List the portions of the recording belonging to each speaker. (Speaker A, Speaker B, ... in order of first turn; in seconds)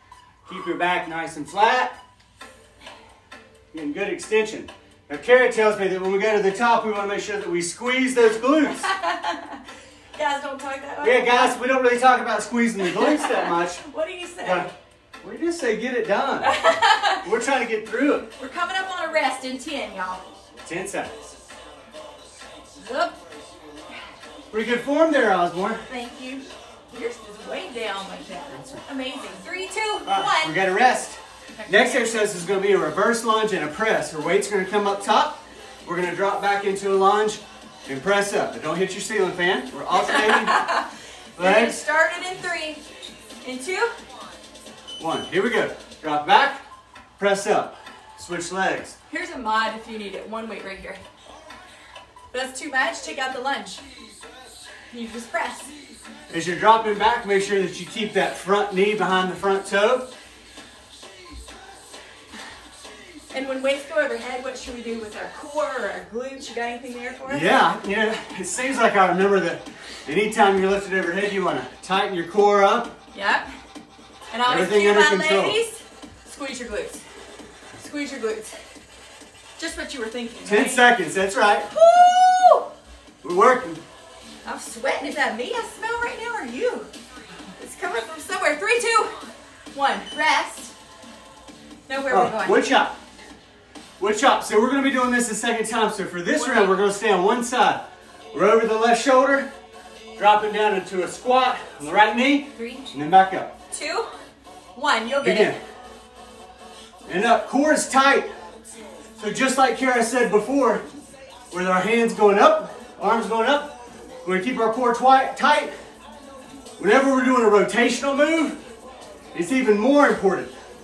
Speaker A: 0.5-2.0, 3.7-8.9, 11.0-13.8, 15.2-16.5, 17.2-18.3, 20.6-21.2, 24.5-25.8, 28.5-28.8, 30.1-40.7, 41.4-41.8, 45.0-46.6, 47.2-49.0, 56.3-60.1, 67.3-72.9, 74.5-75.6, 80.5-81.7, 83.2-83.8, 92.1-93.0, 94.0-99.5, 100.2-103.5, 105.2-105.6, 107.1-108.3, 109.2-110.8, 111.5-115.7, 116.8-118.6, 119.3-120.5
Speaker B: 8.8-9.6, 10.2-11.6, 12.9-14.7, 16.4-17.2, 18.4-20.2, 22.8-23.2, 25.9-30.6, 31.6-32.1, 40.0-42.8, 43.4-43.9, 49.1-51.0, 52.3-53.8, 54.9-55.7, 63.3-67.6, 73.1-73.5, 74.3-77.0, 77.8-78.6, 79.6-80.9, 81.7-82.7, 84.5-86.9, 87.6-89.2, 89.7-90.7, 91.9-92.7, 96.4-96.7, 102.6-102.9, 103.7-104.1, 104.8-105.6